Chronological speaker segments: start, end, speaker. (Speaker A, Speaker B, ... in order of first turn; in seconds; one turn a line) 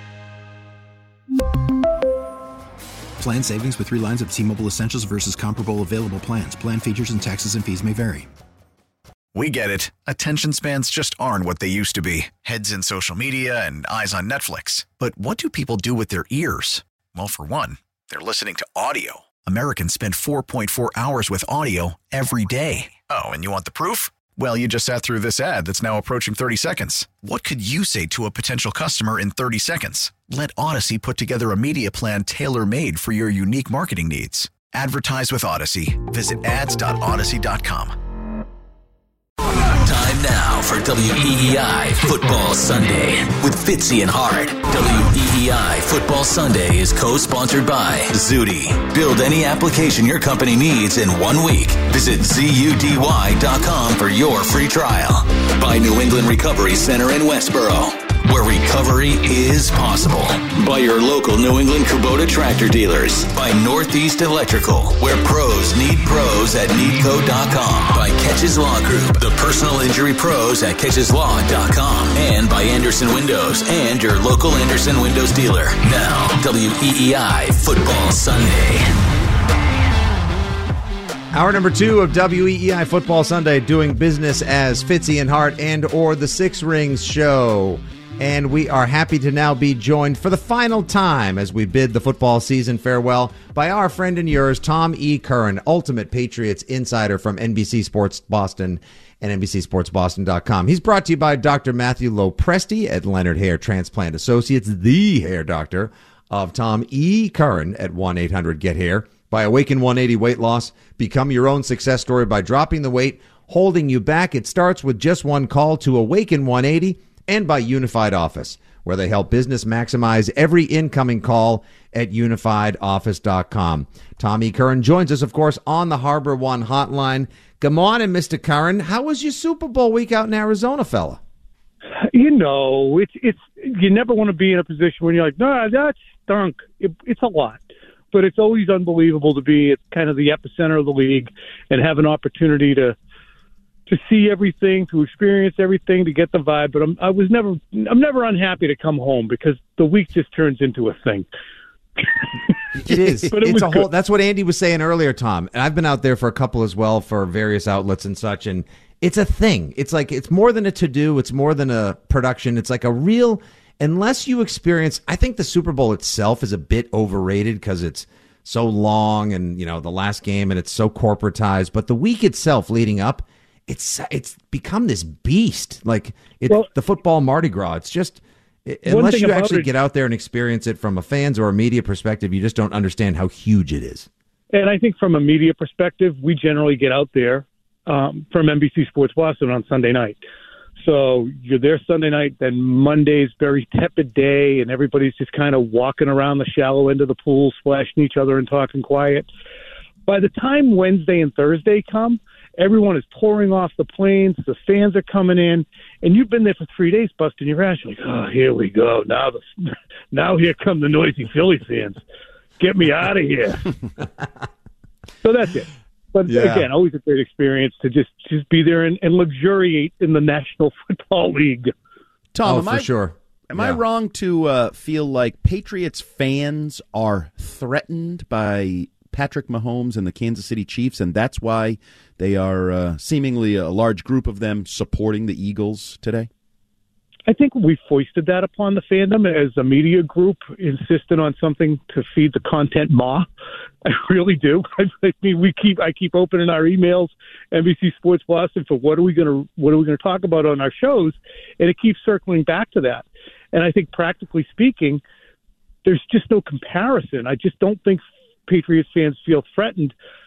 Speaker A: 3.2-8.3
Speaker B: 9.3-38.0
Speaker C: 39.7-79.0
Speaker D: 81.3-131.2
Speaker E: 132.0-137.6
Speaker E: 138.1-143.0
Speaker E: 143.9-151.3
Speaker D: 152.7-184.1
Speaker E: 153.2-153.9
Speaker E: 178.9-179.7
Speaker E: 184.5-190.2
Speaker E: 190.8-199.3
Speaker E: 200.1-212.0
Speaker E: 212.6-213.7
Speaker E: 215.2-221.7
Speaker D: 216.3-216.7
Speaker F: 222.3-222.9
Speaker D: 222.4-223.8
Speaker F: 223.5-236.3
Speaker E: 237.3-243.3
Speaker E: 243.8-255.0
Speaker E: 255.8-259.9